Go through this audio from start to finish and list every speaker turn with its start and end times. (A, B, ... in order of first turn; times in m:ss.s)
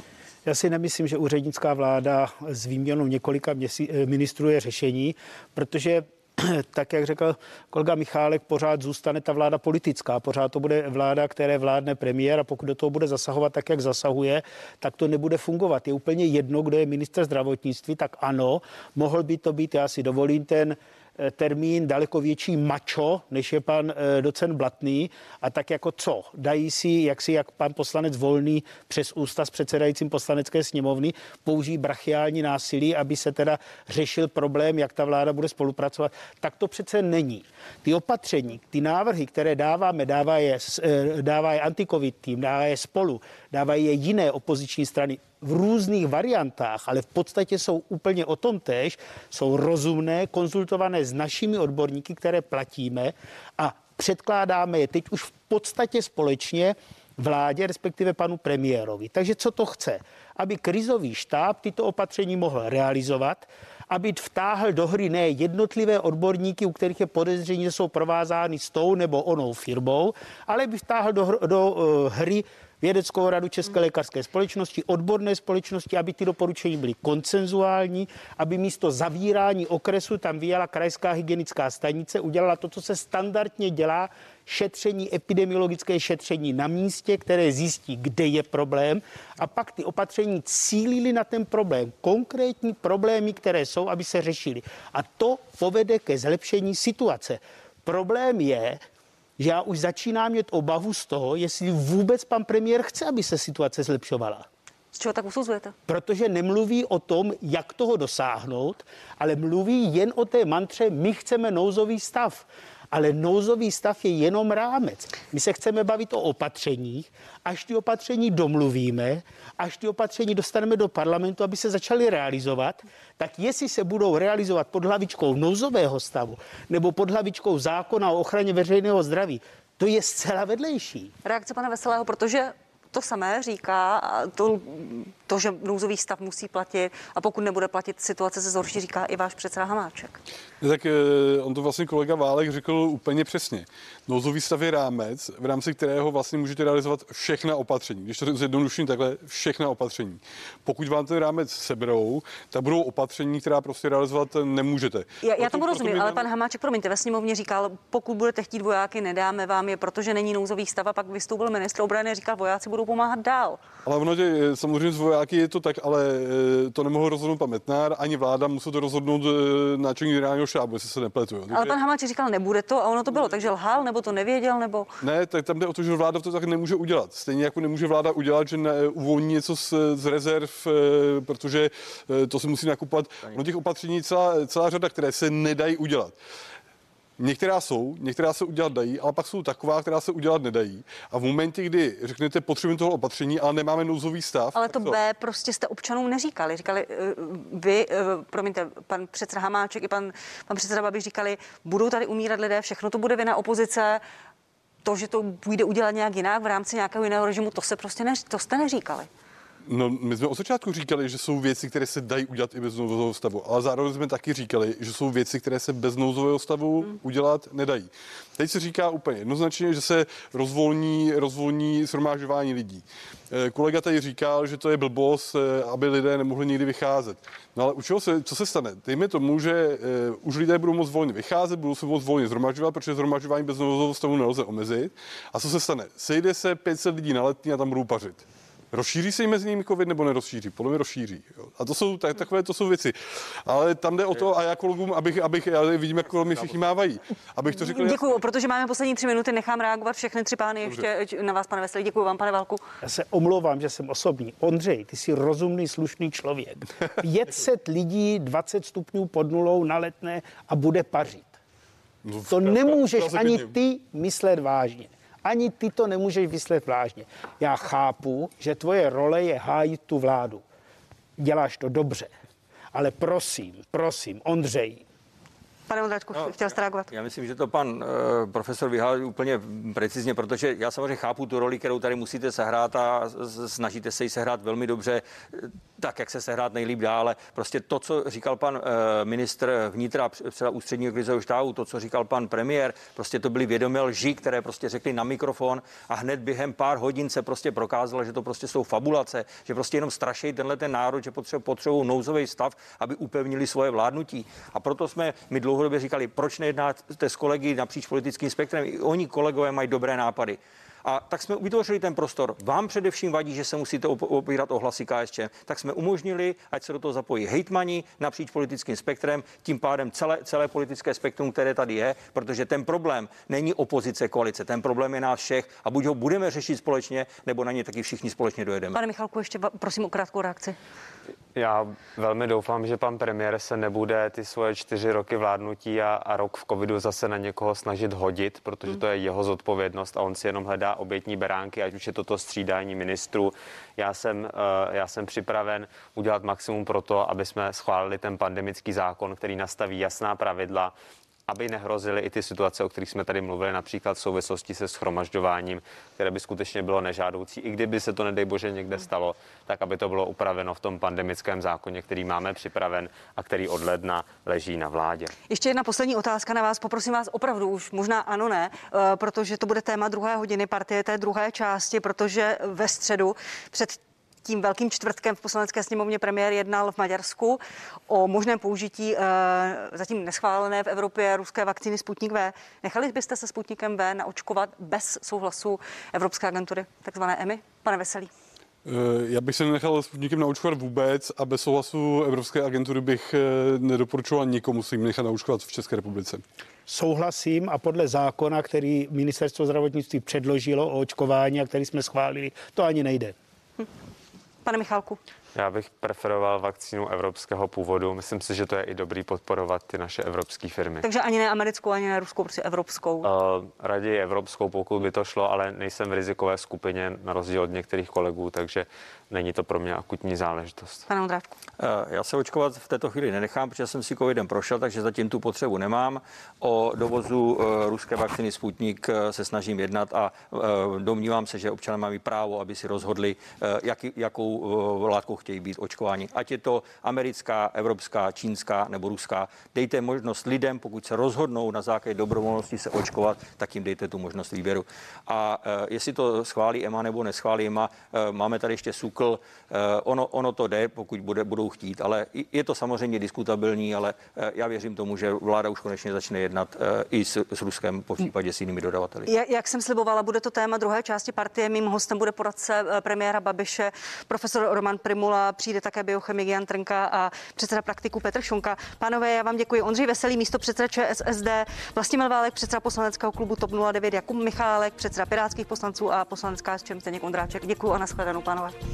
0:00.4-1:38.8 A
1:39.4-1:44.5 A
1:44.9-1:45.8 B
1:45.9-2:11.1 A
2:11.2-2:20.2 B
2:20.6-2:36.3 C
2:35.2-2:43.6 B
2:43.8-2:51.8 C
2:51.5-2:54.9 B
2:55.0-3:06.2 C
3:07.2-3:15.0 C
3:14.6-3:24.0 B
3:24.8-3:29.1 B
3:29.7-4:08.2 C
4:07.6-4:12.6 B
4:12.8-4:21.4 A
4:22.0-4:23.5 C
4:22.3-4:30.4 A
4:31.2-4:32.1 A
4:32.7-4:34.8 A
4:35.7-4:36.9 B
4:36.9-5:28.8 D
5:28.7-5:30.6 B
5:31.4-5:50.7 E
5:51.3-6:05.1 E
6:05.3-6:28.1 B
6:28.6-6:36.2 C
6:36.7-6:43.2 A
6:44.4-6:45.0 B
6:45.4-6:50.9 E
6:50.8-6:53.1 B
6:53.0-7:00.9 E
7:00.9-7:01.3 B
7:01.6-7:39.1 D
7:39.1-7:58.6 B